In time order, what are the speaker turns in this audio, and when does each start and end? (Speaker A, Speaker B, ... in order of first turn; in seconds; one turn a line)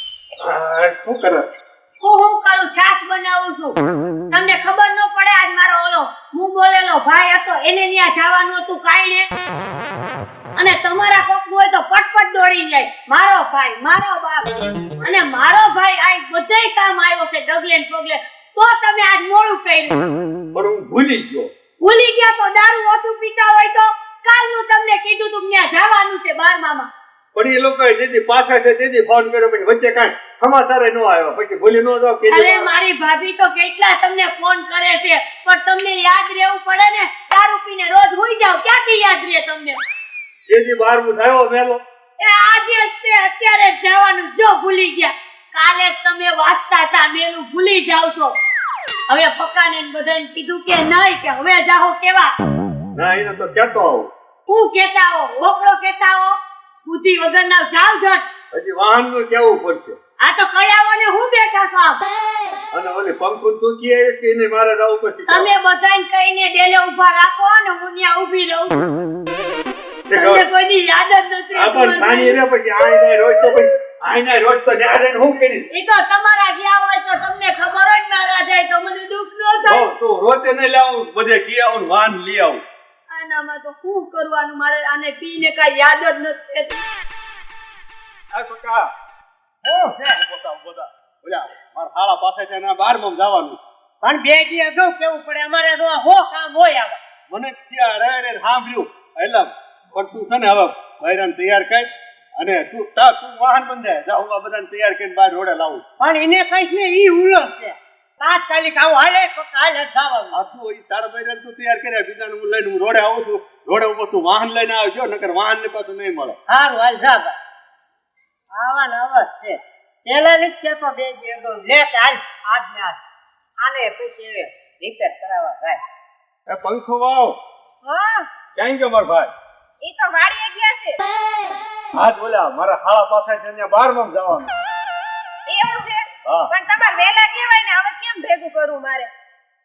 Speaker A: 0.4-1.5
Speaker B: 2.0-3.8
Speaker B: 4.3-9.2
Speaker B: 10.6-20.0
Speaker A: 20.5-21.5
Speaker B: 21.8-26.9
Speaker A: 27.3-32.7
Speaker B: 32.3-39.8
Speaker A: 40.5-41.8
Speaker B: 42.2-48.3
Speaker B: 49.1-52.3
Speaker A: 52.9-54.1
Speaker B: 54.5-56.3
Speaker B: 56.9-58.2
Speaker A: 58.5-60.0
Speaker B: 60.2-62.0
Speaker A: 62.7-65.5
Speaker B: 65.3-68.8
Speaker A: 70.1-70.5
Speaker B: 70.1-72.4
Speaker A: 71.5-75.6
Speaker B: 75.7-79.9
Speaker A: 79.7-82.6
Speaker B: 83.1-86.8
Speaker A: 88.3-88.9
Speaker C: 89.6-90.2
Speaker A: 90.0-93.6
Speaker C: 94.0-97.0
Speaker A: 97.3-105.8
Speaker C: 106.0-110.4
Speaker A: 110.3-116.3
Speaker C: 116.5-117.4
Speaker C: 118.5-123.0
Speaker C: 123.6-125.8
Speaker A: 126.5-127.4
Speaker D: 127.8-128.2
Speaker A: 128.5-129.3
Speaker D: 129.8-131.0
Speaker A: 131.9-134.5
Speaker D: 135.5-139.1
Speaker A: 136.2-136.5